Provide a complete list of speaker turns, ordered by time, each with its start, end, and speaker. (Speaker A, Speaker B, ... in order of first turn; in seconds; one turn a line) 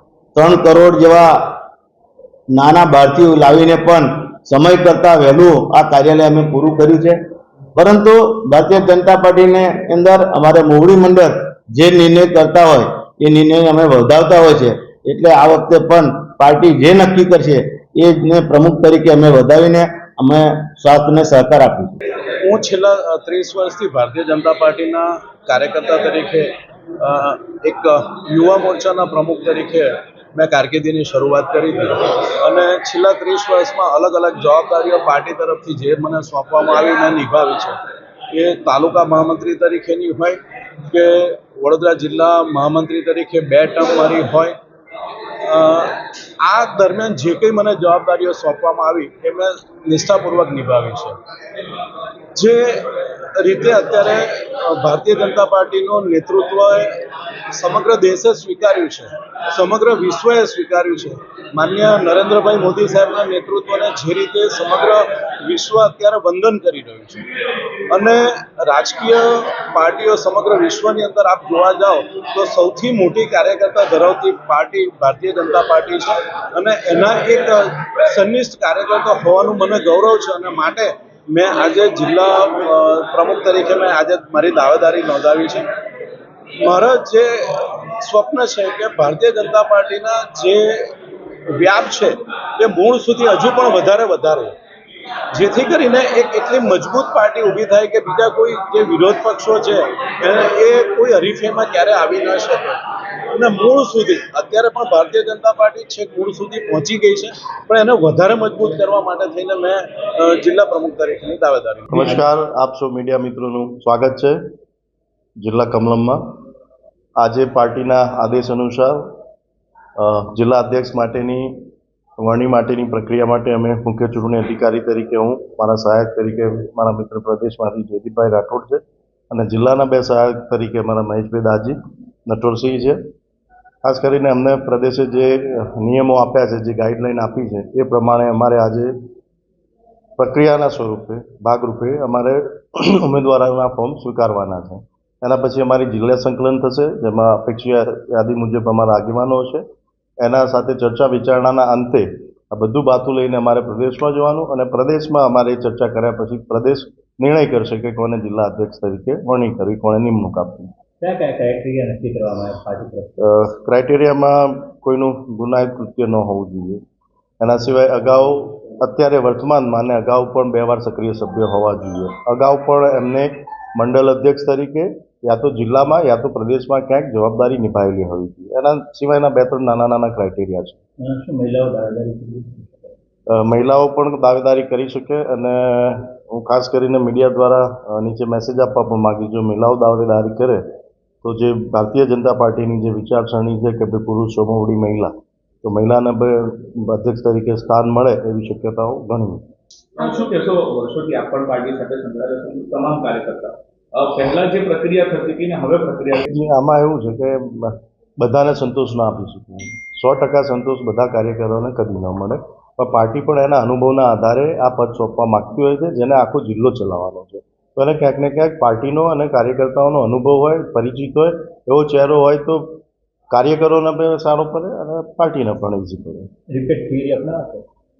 Speaker A: 0.3-1.6
Speaker A: 2.5-7.2
Speaker A: 7.8-22.0
Speaker B: 22.4-37.8
Speaker B: 38.3-44.6
Speaker B: 45.4-51.2
Speaker B: 52.4-56.9
Speaker B: 57.5-67.2
Speaker B: 67.9-85.7
Speaker B: 86.6-90.9
Speaker B: 91.5-94.6
Speaker B: 95.3-102.8
Speaker B: 103.3-111.9
Speaker C: 111.9-114.4
Speaker C: 115.4-116.2
Speaker C: 117.2-119.1
Speaker C: 120.0-121.7
Speaker C: 122.2-131.8
Speaker C: 132.3-133.0
Speaker C: 133.8-138.9
Speaker C: 140.2-149.6
Speaker C: 150.2-160.7
Speaker D: 161.0-163.1
Speaker C: 163.2-166.8
Speaker C: 167.4-180.8
Speaker D: 181.0-182.9
Speaker C: 183.3-190.6
Speaker C: 191.2-195.1
Speaker C: 195.6-199.4
Speaker E: 200.0-206.2
Speaker C: 206.2-226.3
Speaker D: 226.5-227.7